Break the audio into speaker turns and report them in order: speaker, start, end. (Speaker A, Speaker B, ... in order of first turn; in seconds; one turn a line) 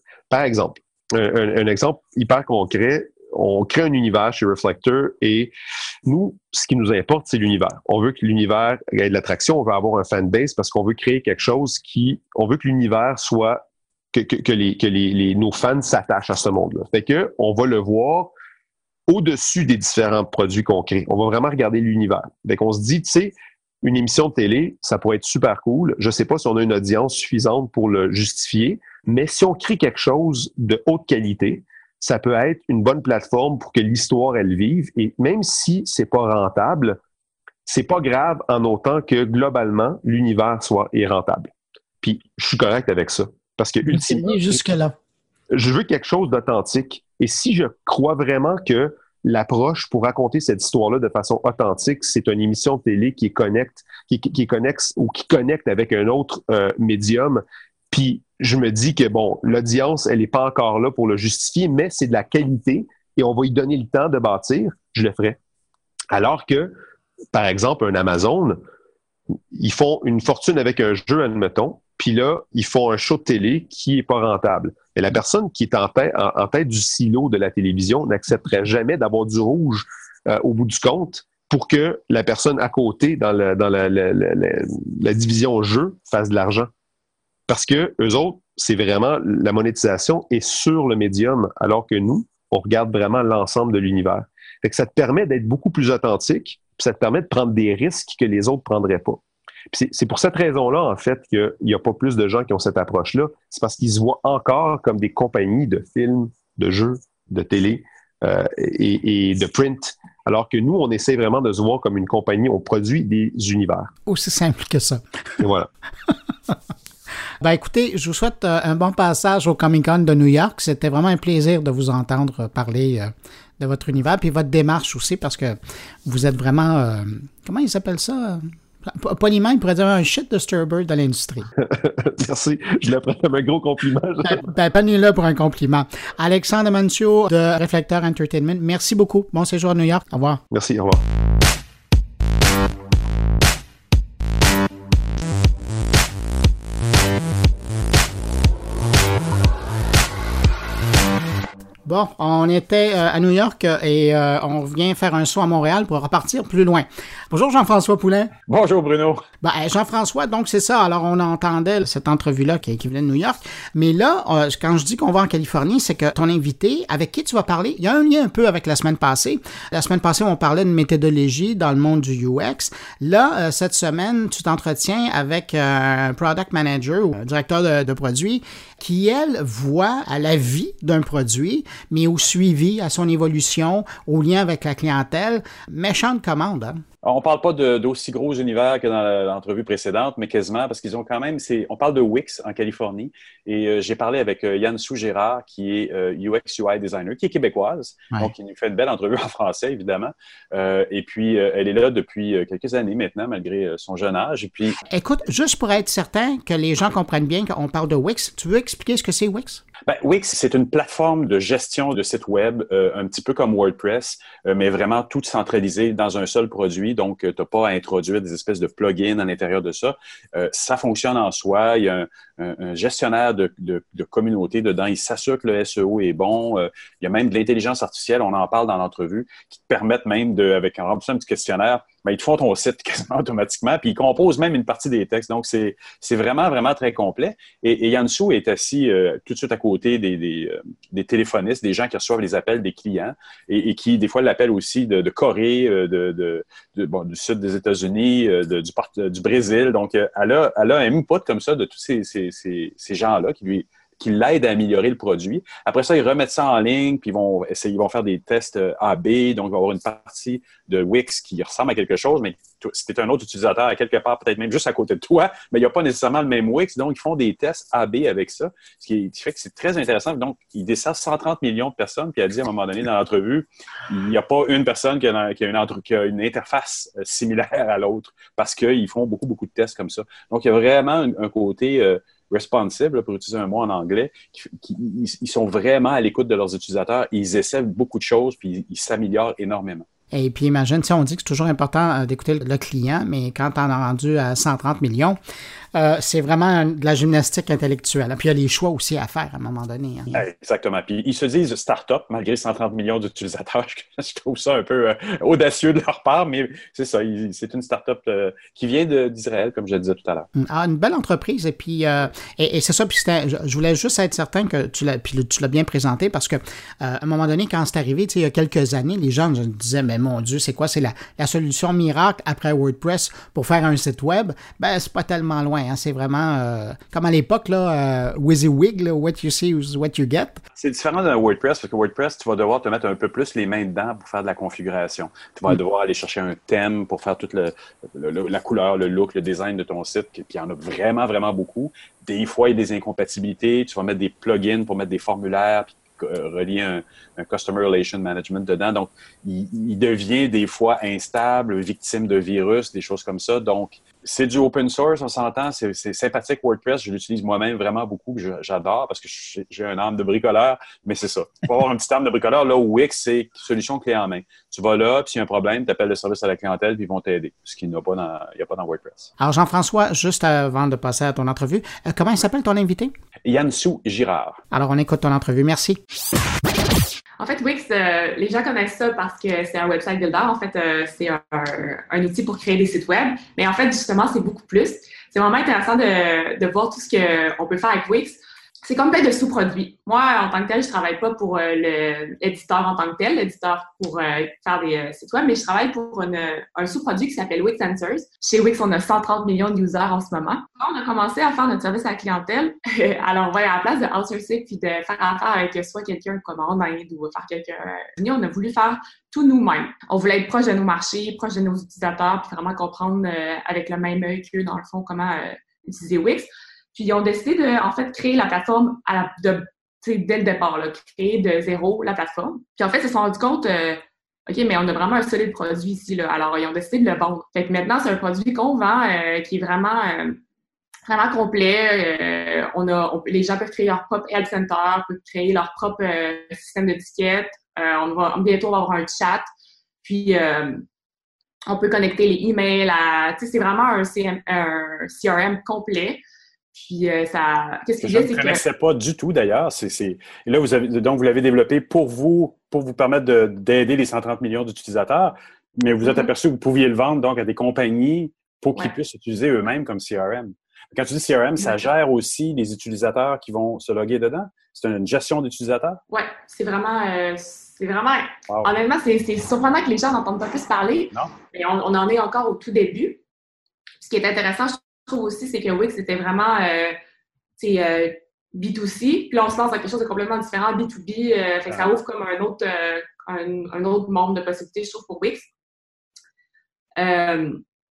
Speaker A: 0.3-5.5
Speaker A: 6.1-18.3
Speaker A: 19.1-37.0
Speaker A: 37.7-44.4
Speaker B: 43.9-44.9
Speaker A: 45.5-65.4
Speaker A: 66.1-66.8
Speaker A: 67.3-68.6
Speaker A: 69.5-86.7
Speaker A: 87.5-113.9
Speaker B: 114.1-115.0
Speaker A: 115.4-115.7
Speaker B: 117.4-131.5
Speaker A: 131.6-134.5
Speaker B: 134.2-140.4
Speaker A: 140.5-141.0
Speaker B: 151.9-158.3
Speaker C: 158.5-159.2
Speaker B: 159.4-186.8
Speaker C: 187.0-204.8
Speaker B: 204.9-209.6
Speaker C: 209.9-289.9
Speaker B: 290.1-295.2
Speaker B: 295.7-300.2
Speaker C: 300.1-310.3
Speaker B: 310.4-330.4
Speaker C: 330.6-369.1
Speaker B: 369.2-372.9
Speaker C: 373.2-374.4
Speaker B: 374.5-375.8
Speaker D: 377.2-430.2
Speaker D: 430.9-439.3
Speaker D: 439.8-440.6
Speaker D: 441.5-446.0
Speaker D: 446.5-448.4
Speaker C: 447.8-465.8
Speaker D: 455.8-456.1
Speaker D: 461.4-461.7
Speaker D: 465.9-473.0
Speaker C: 470.9-471.2
Speaker D: 473.8-476.8
Speaker D: 477.4-485.3
Speaker D: 486.8-487.4